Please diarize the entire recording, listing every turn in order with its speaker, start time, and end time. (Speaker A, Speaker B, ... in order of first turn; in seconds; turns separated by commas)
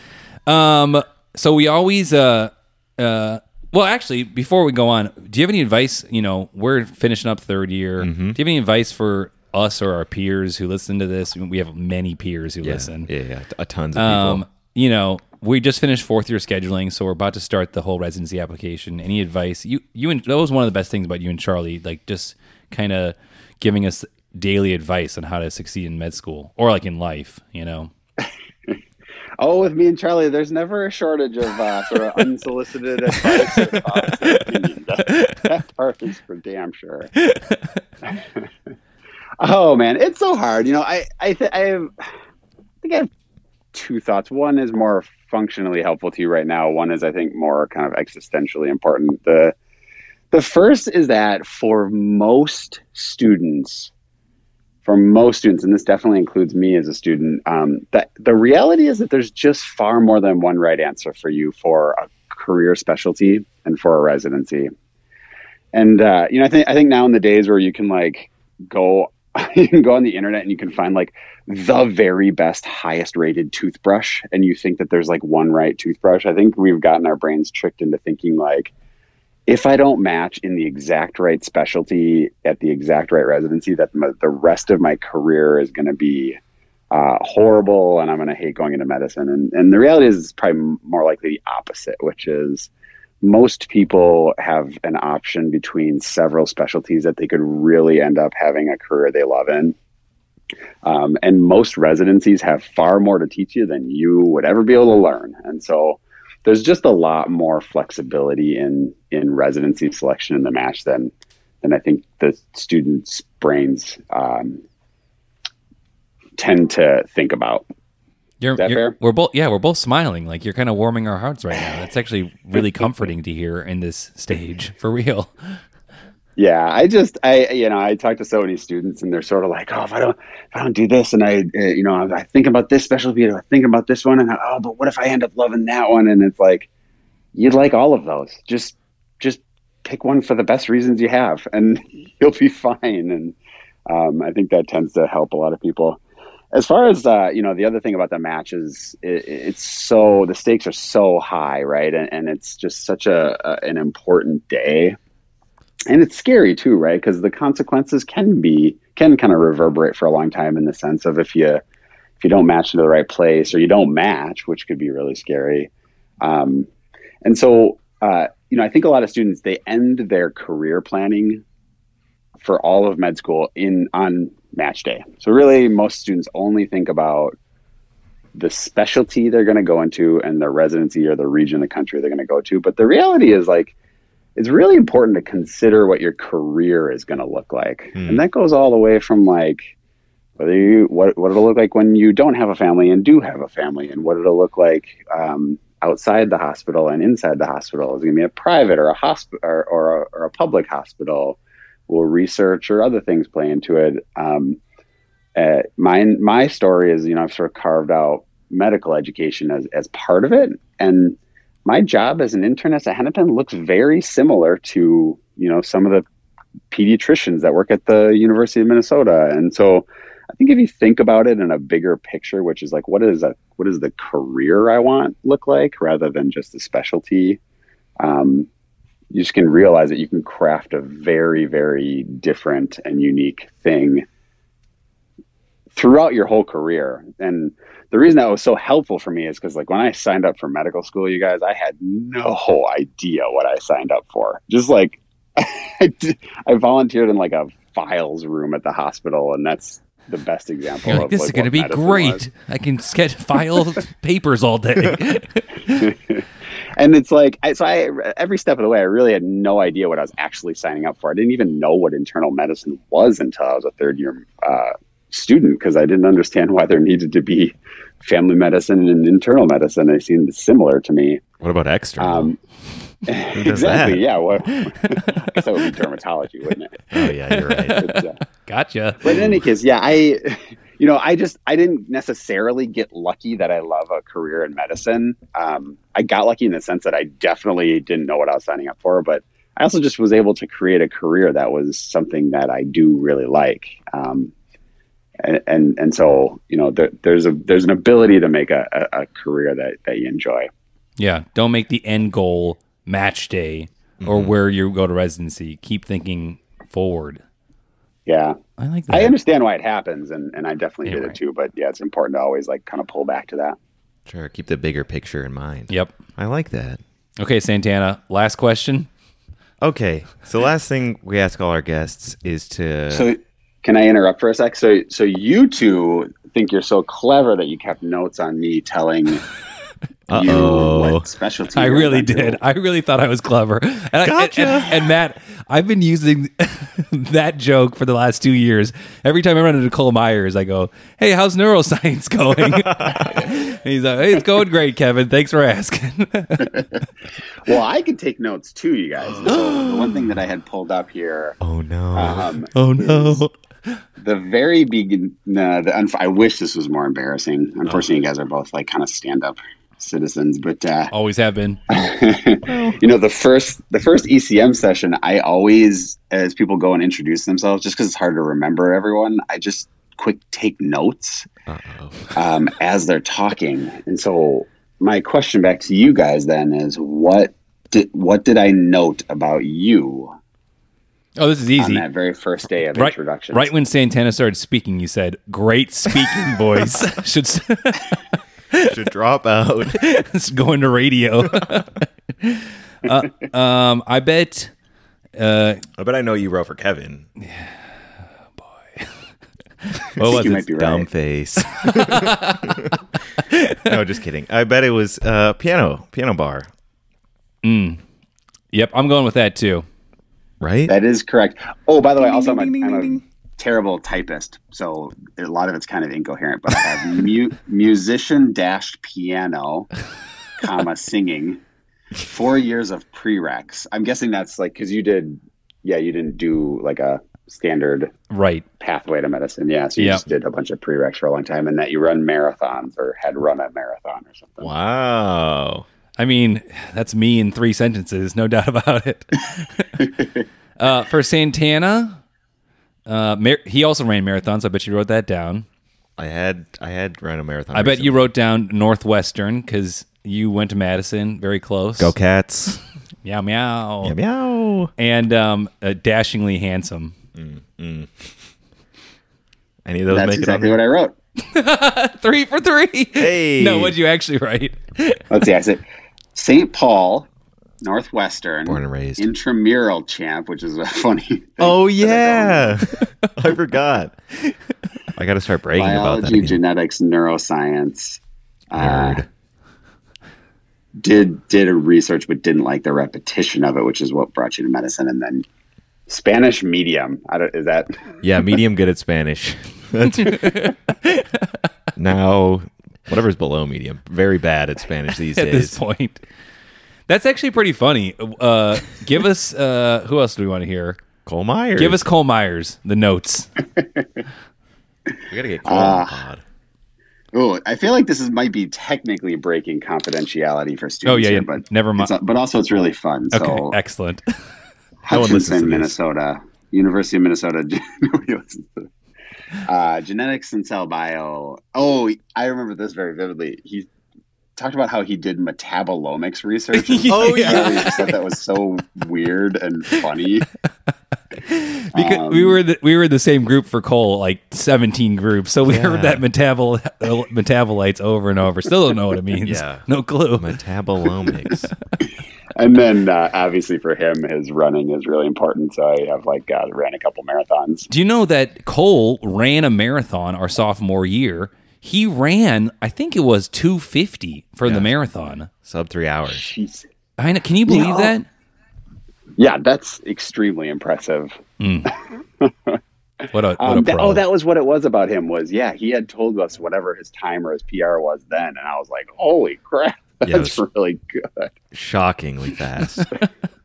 Speaker A: 0.5-13.1, Speaker B: 8.0-8.4, Speaker B: 12.6-14.4, Speaker A: 14.0-27.9, Speaker C: 29.4-37.1, Speaker A: 33.2-34.4, Speaker A: 37.2-37.6, Speaker C: 38.1-38.5, Speaker C: 39.4-42.0, Speaker C: 42.8-43.1, Speaker C: 43.7-49.5, Speaker C: 50.3-53.9, Speaker C: 54.9-64.7, Speaker C: 65.7-78.7, Speaker C: 79.5-86.4, Speaker C: 86.9-92.7, Speaker C: 93.2-99.8, Speaker C: 100.8-111.1, Speaker C: 111.6-114.6, Speaker C: 116.4-117.7, Speaker A: 118.4-125.3, Speaker C: 118.6-119.0, Speaker C: 126.4-136.7, Speaker C: 137.3-143.3, Speaker C: 143.9-146.0, Speaker C: 146.5-155.0, Speaker C: 155.9-161.6, Speaker C: 162.2-165.7, Speaker C: 166.2-166.7, Speaker C: 167.2-171.4, Speaker C: 172.4-177.3, Speaker C: 178.3-183.8, Speaker C: 184.4-189.7, Speaker B: 188.0-188.2, Speaker C: 190.4-204.6, Speaker C: 205.4-216.1, Speaker C: 216.7-227.4, Speaker C: 228.0-228.5, Speaker C: 229.1-234.1, Speaker C: 235.8-252.2, Speaker A: 250.8-255.8, Speaker C: 255.7-256.2, Speaker C: 256.8-271.3, Speaker B: 271.4-272.4, Speaker C: 272.0-272.4, Speaker C: 273.1-276.9, Speaker B: 273.3-274.0, Speaker B: 276.9-277.9, Speaker A: 277.4-277.8, Speaker C: 277.8-278.2, Speaker A: 278.5-279.2, Speaker C: 279.0-294.3, Speaker B: 279.1-279.4, Speaker C: 295.2-300.5, Speaker A: 301.0-307.2, Speaker B: 304.0-304.4, Speaker C: 308.1-308.4, Speaker A: 308.6-309.1, Speaker C: 308.9-313.6, Speaker A: 310.9-311.2, Speaker B: 314.1-316.8, Speaker A: 315.7-316.0, Speaker A: 317.2-318.9, Speaker B: 319.6-323.1, Speaker C: 322.9-329.2, Speaker B: 330.1-331.1, Speaker C: 330.1-332.4, Speaker A: 331.6-346.6, Speaker B: 334.0-334.9, Speaker B: 342.5-343.1, Speaker C: 347.4-351.4, Speaker B: 349.1-350.1, Speaker B: 351.4-353.3, Speaker C: 351.9-353.2, Speaker C: 354.0-360.9, Speaker A: 360.9-361.6, Speaker C: 361.7-371.3, Speaker B: 362.5-362.8, Speaker B: 371.5-372.2, Speaker C: 372.2-380.1, Speaker A: 381.2-381.9, Speaker C: 381.6-383.5, Speaker A: 382.7-388.0, Speaker B: 388.6-389.8, Speaker A: 389.7-394.5, Speaker A: 395.2-395.7, Speaker B: 395.8-397.1, Speaker A: 397.2-397.5, Speaker A: 398.4-398.9, Speaker A: 399.7-400.4, Speaker B: 400.0-402.8, Speaker C: 400.0-400.9, Speaker A: 401.6-402.7, Speaker A: 403.3-403.7, Speaker B: 403.6-406.5, Speaker A: 407.4-407.8, Speaker A: 408.5-409.7, Speaker B: 410.4-410.7, Speaker C: 410.7-419.7, Speaker B: 412.0-413.0, Speaker C: 420.4-421.4, Speaker C: 422.0-427.9, Speaker A: 428.1-428.4, Speaker C: 428.6-434.5, Speaker A: 429.8-430.0, Speaker B: 434.4-435.6, Speaker A: 436.0-439.9, Speaker A: 440.6-442.0, Speaker A: 442.9-445.5, Speaker B: 446.0-448.1, Speaker A: 447.5-451.9, Speaker B: 451.8-452.6, Speaker A: 453.0-454.0, Speaker B: 453.8-454.7, Speaker A: 454.8-456.9, Speaker B: 457.1-458.1, Speaker B: 459.6-460.6, Speaker C: 459.9-460.9, Speaker A: 461.2-465.0, Speaker B: 463.0-463.8, Speaker C: 465.1-465.6, Speaker C: 466.1-467.1, Speaker C: 467.6-472.6, Speaker B: 468.5-469.1, Speaker B: 471.4-474.0, Speaker B: 475.0-476.4, Speaker C: 475.6-478.0, Speaker C: 478.5-479.0, Speaker B: 478.6-479.1, Speaker C: 480.8-485.2, Speaker C: 485.9-487.8, Speaker B: 488.0-490.3, Speaker A: 489.9-491.4, Speaker B: 491.8-495.6, Speaker A: 495.1-496.0, Speaker A: 496.9-500.8, Speaker B: 501.1-501.8, Speaker A: 501.6-503.3, Speaker B: 505.1-506.2, Speaker C: 505.5-506.0, Speaker C: 507.1-513.6, Speaker A: 510.9-511.9, Speaker A: 513.1-514.0, Speaker C: 514.9-518.7, Speaker B: 514.9-515.8, Speaker C: 519.5-523.7, Speaker C: 524.4-530.3, Speaker A: 526.5-527.9, Speaker B: 526.9-527.8, Speaker A: 531.2-540.3, Speaker C: 531.7-532.4, Speaker B: 535.5-536.0, Speaker B: 539.2-539.6, Speaker B: 540.2-541.5, Speaker C: 542.4-547.7, Speaker A: 547.7-555.3, Speaker B: 555.5-556.3, Speaker C: 556.1-556.7, Speaker A: 557.0-558.1, Speaker C: 557.5-557.9, Speaker C: 559.2-561.1, Speaker A: 561.4-561.7, Speaker C: 562.2-562.6, Speaker A: 563.1-564.0, Speaker C: 563.4-571.3, Speaker B: 570.0-570.4, Speaker B: 571.5-572.9